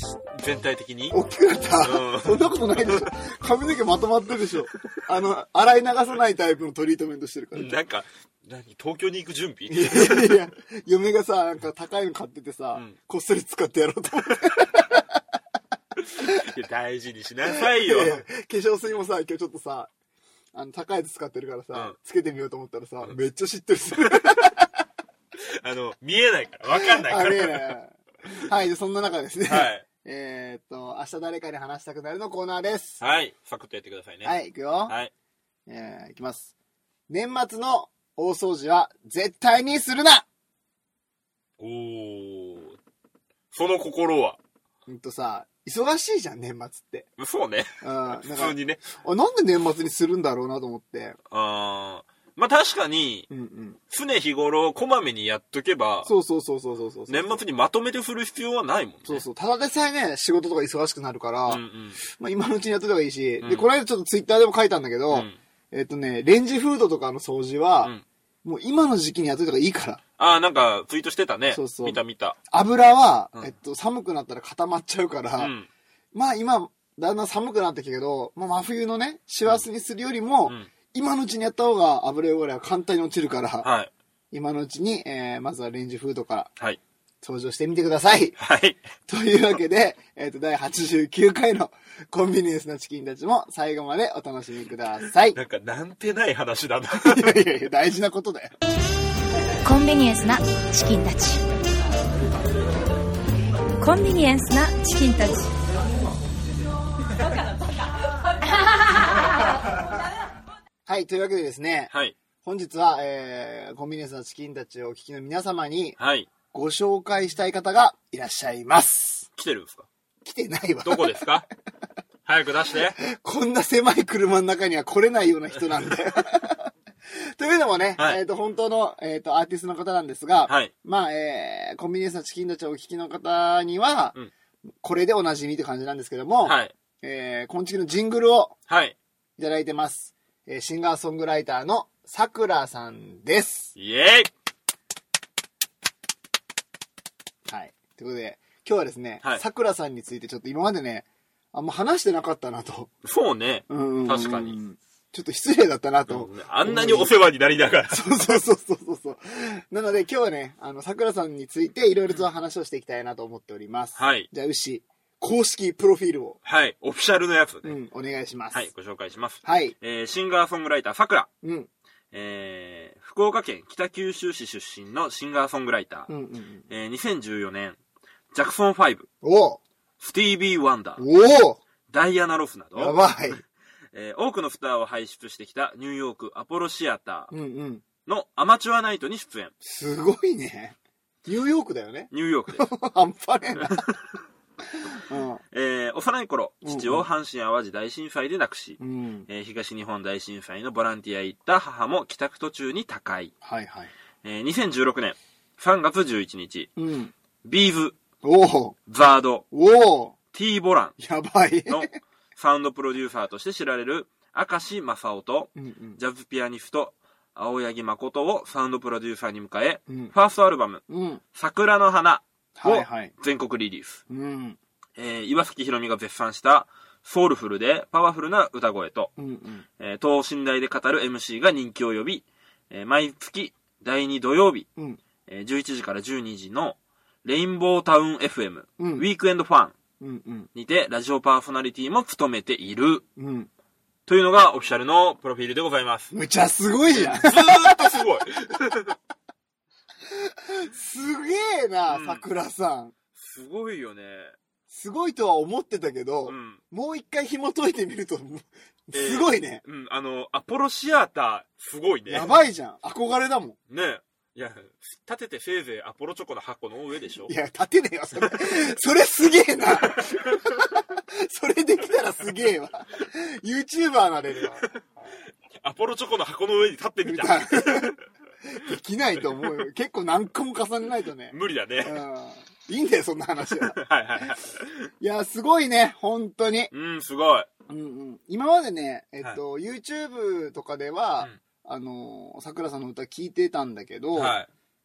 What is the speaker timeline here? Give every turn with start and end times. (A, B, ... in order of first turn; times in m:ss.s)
0:00.1-0:01.2 A
0:01.1-0:07.7 B
0:01.8-0:03.1 A
0:07.5-0:10.4 A
0:09.7-0:15.1 B
0:16.0-0:18.2 A
0:17.5-0:19.9 B
0:20.5-0:24.7 B
0:24.1-0:24.4 A
0:25.4-0:27.8 A
0:26.7-0:33.0 B
0:29.4-0:29.8 A
0:33.0-0:34.3 A
0:34.2-0:34.9 B
0:35.7-0:36.5 B
0:37.1-0:40.2 B
0:41.6-0:42.8 A
0:43.5-0:44.4 A
0:44.8-0:47.1 B
0:47.2-0:48.9 A
0:47.8-0:51.2 B
0:51.3-0:53.3 A
0:53.3-0:53.8 B
0:53.9-0:56.1 A
0:56.0-0:57.4 B
0:57.1-0:59.2 A
0:59.0-1:07.9 B
1:01.5-1:02.0 A
1:03.4-1:03.7 A
1:05.1-1:05.4 A
1:08.4-1:10.0 B
1:10.2-1:12.4 A
1:11.5-1:12.0 B
1:12.5-1:15.5 B
1:15.4-1:15.7 A
1:16.1-1:23.7 B
1:23.6-1:23.9 A
1:24.3-1:26.5 B
1:27.2-1:28.4 B
1:28.4-1:28.8 A
1:29.1-1:35.4 B
1:35.3-1:37.4 A
1:36.9-1:38.5 B
1:39.6-1:41.4 C
1:43.8-1:45.5 C
1:50.9-1:51.9 B
1:52.4-1:56.0 B
1:56.0-1:56.3 A
1:56.5-1:59.3 B
1:59.4-1:59.9 A
2:00.2-2:01.3 B
2:00.8-2:01.4 A
2:02.2-2:03.0 A
2:03.0-2:14.2 B
2:14.8-2:18.5 B
2:16.4-2:16.7 A
2:18.7-2:19.0 A
2:19.4-2:23.7 B
2:23.7-2:24.3 A
2:27.4-2:32.9 B
2:33.0-2:34.6 A
2:33.7-2:37.1 B
2:36.1-2:38.4 A
2:37.9-2:46.4 B
2:44.0-2:44.3 A
2:46.4-2:47.8 A
2:47.6-2:48.6 B
2:48.5-2:51.3 A
2:49.4-2:49.7 B
2:51.4-2:51.7 B
2:52.1-2:56.1 A
2:56.1-2:56.6 B
2:56.7-2:57.8 A
2:58.3-2:59.1 A
2:59.2-2:59.6 B
3:00.0-3:01.0 A
3:01.0-3:01.6 B
3:01.9-3:03.0 A
3:02.8-3:03.4 B
3:03.9-3:07.3 A
3:07.3-3:07.8 B
3:08.0-3:09.5 A
3:09.6-3:13.8 B
3:12.1-3:12.7 A
3:13.7-3:13.9 A
3:14.9-3:15.4 B
3:15.5-3:23.3 A
3:16.6-3:17.0 B
3:18.8-3:19.3 B
3:23.4-3:23.9 B
3:24.2-3:26.7 A
3:26.8-3:27.1 B
3:27.4-3:28.0 A
3:28.2-3:28.8 B
3:28.9-3:29.4 A
3:29.5-3:30.2 B
3:30.3-3:30.9 A
3:31.0-3:32.0 B
3:31.7-3:44.0 A
3:35.6-3:36.0 B
3:40.9-3:41.2 B
3:42.6-3:43.1 B
3:44.1-3:44.6 B
3:45.0-3:49.1 A
3:49.2-3:49.6 B
3:49.8-3:54.7 A
3:55.3-3:59.7 A
3:58.8-3:59.0 B
4:00.0-4:00.5 B
4:00.5-4:03.0 A
4:03.2-4:03.5 B
4:04.0-4:06.1 A
4:06.1-4:08.0 B
4:06.9-4:09.0 A
4:10.0-4:12.9 B
4:11.9-4:12.2 A
4:13.2-4:14.3 A
4:14.7-4:19.6 B
4:16.3-4:16.6 A
4:18.9-4:22.3 A
4:22.1-4:23.6 B
4:23.7-4:27.3 A
4:27.2-4:34.7 B
4:30.0-4:30.4 A
4:35.6-4:38.0 A
4:37.0-4:43.8 B
4:41.3-4:42.0 A
4:43.7-4:44.9 A
4:45.0-4:46.7 B
4:46.7-4:47.5 A
4:47.7-4:54.3 B
4:54.1-4:54.5 A